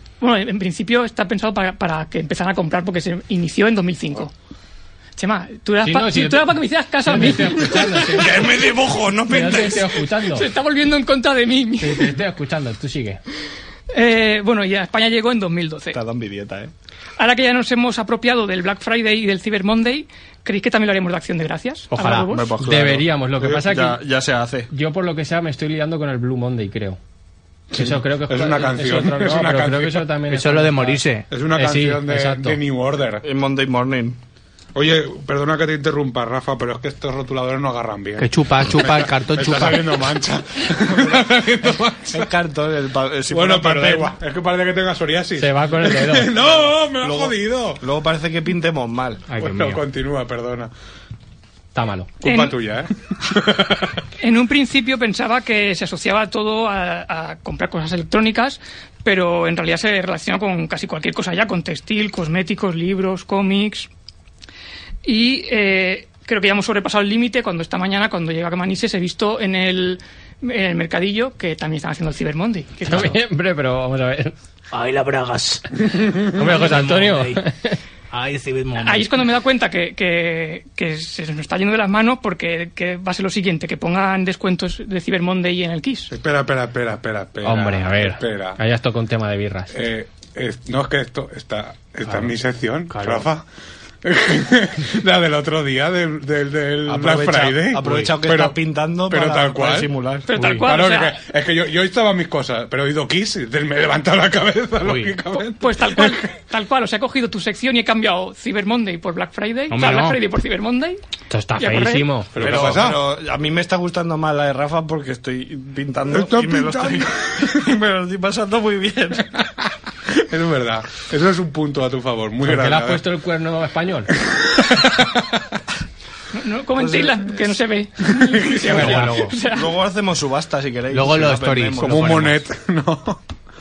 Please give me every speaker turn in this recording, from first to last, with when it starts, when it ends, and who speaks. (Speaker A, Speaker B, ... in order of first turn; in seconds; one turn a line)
Speaker A: 0.2-4.3
Speaker A: 5.2-8.1
Speaker B: 5.8-8.6
Speaker C: 8.1-9.9
Speaker B: 9.3-10.5
Speaker A: 10.3-12.1
Speaker B: 11.8-13.2
Speaker A: 13.9-16.0
Speaker C: 15.9-16.7
Speaker A: 17.2-22.6
Speaker D: 21.9-22.3
Speaker C: 22.3-24.7
Speaker B: 22.6-24.0
Speaker B: 24.7-27.0
Speaker E: 27.7-30.1
Speaker B: 27.7-31.0
Speaker D: 30.3-31.2
Speaker E: 31.3-33.2
Speaker B: 31.5-32.6
Speaker C: 33.2-34.2
Speaker E: 34.7-42.3
Speaker D: 38.2-40.0
Speaker C: 40.9-41.2
Speaker C: 42.1-44.1
Speaker E: 43.3-47.8
Speaker B: 45.4-46.3
Speaker C: 46.6-49.3
Speaker D: 49.3-49.8
Speaker E: 49.4-50.7
Speaker B: 51.7-52.1
Speaker E: 52.2-54.0
Speaker A: 52.2-52.5
Speaker A: 54.2-63.9
Speaker A: 65.0-73.2
Speaker B: 72.8-74.3
Speaker D: 74.7-77.4
Speaker B: 76.3-77.8
Speaker D: 78.1-79.1
Speaker A: 78.7-86.1
Speaker E: 86.1-88.6
Speaker B: 87.4-89.7
Speaker E: 89.7-93.4
Speaker D: 92.9-93.2
Speaker E: 94.0-99.9
Speaker C: 96.9-100.3
Speaker A: 100.3-101.2
Speaker D: 100.3-100.6
Speaker E: 100.5-106.3
Speaker D: 104.8-105.2
Speaker A: 105.4-111.0
Speaker D: 109.7-110.2
Speaker B: 111.3-112.7
Speaker A: 111.6-112.1
Speaker E: 112.3-113.0
Speaker C: 112.4-119.3
Speaker E: 116.1-117.7
Speaker E: 120.1-123.0
Speaker B: 122.4-124.1
Speaker E: 124.2-125.4
Speaker A: 126.3-129.7
Speaker C: 126.8-127.3
Speaker E: 128.2-129.0
Speaker D: 128.7-129.3
Speaker C: 129.4-132.1
Speaker D: 130.9-132.4
Speaker E: 131.8-133.2